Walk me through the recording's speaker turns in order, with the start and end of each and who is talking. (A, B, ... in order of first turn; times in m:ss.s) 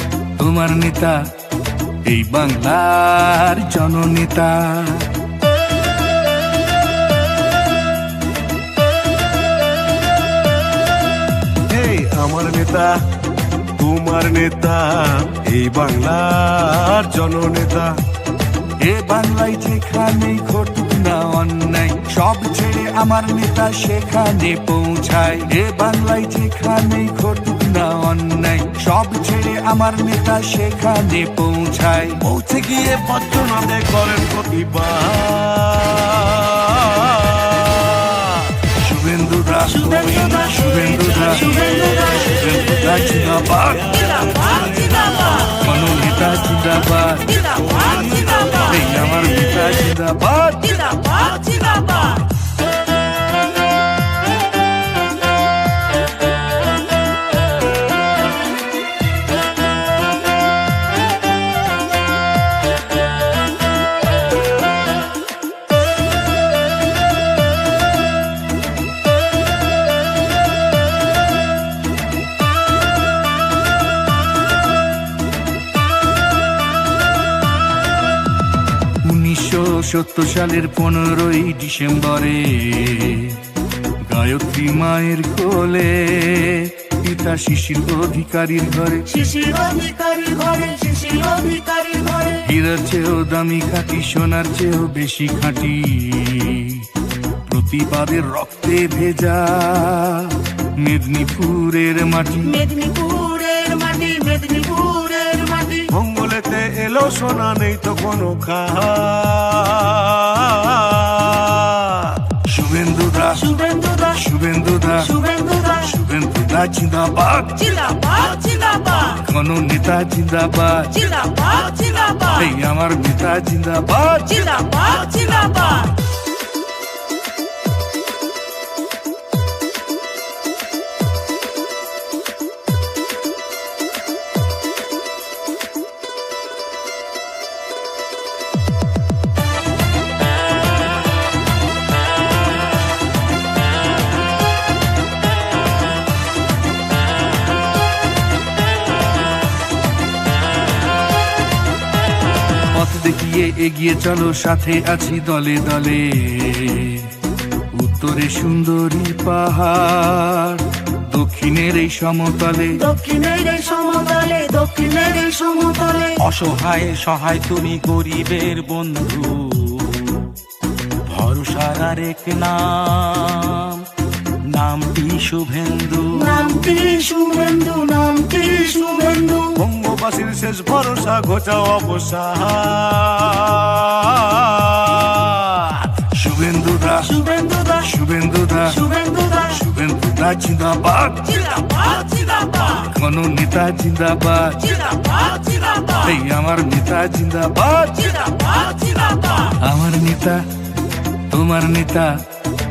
0:00.4-0:01.3 A
0:02.0-0:05.1 A
0:11.7-0:13.0 B
0:13.8-0:18.0 B
0:18.8-0:32.2 A
0:32.2-0:38.3 B
0:38.7-0:44.5 A
0:39.8-0:42.3 C
0:45.4-0:47.6 A
0:48.5-0:51.5 A
1:19.0-1:23.4 A
1:24.0-1:29.1 A
1:29.1-1:32.4 C
1:32.4-1:36.9 A
1:37.4-1:42.6 A
1:42.5-1:45.9 C
1:45.9-1:52.2 B
1:52.4-1:53.5 A
1:53.4-1:54.2 C
1:54.1-1:55.2 A
1:55.1-1:55.8 C
1:55.8-1:58.0 A
1:58.0-1:59.0 C
1:59.0-2:01.3 A
2:01.3-2:02.3 C
2:02.2-2:05.8 A
2:05.3-2:05.8 C
2:32.7-2:37.1 A
2:37.7-2:42.8 A
2:42.8-2:46.2 C
2:46.2-2:50.3 D
2:51.1-2:53.9 D
2:54.5-2:56.4 D
2:56.1-2:59.6 C
2:59.6-3:05.9 B
3:06.0-3:07.2 A
3:07.1-3:07.8 C
3:07.8-3:08.8 A
3:08.8-3:09.5 C
3:09.5-3:11.7 A
3:12.0-3:12.6 C
3:12.7-3:15.2 A
3:15.8-3:20.5 A
3:21.3-3:22.3 A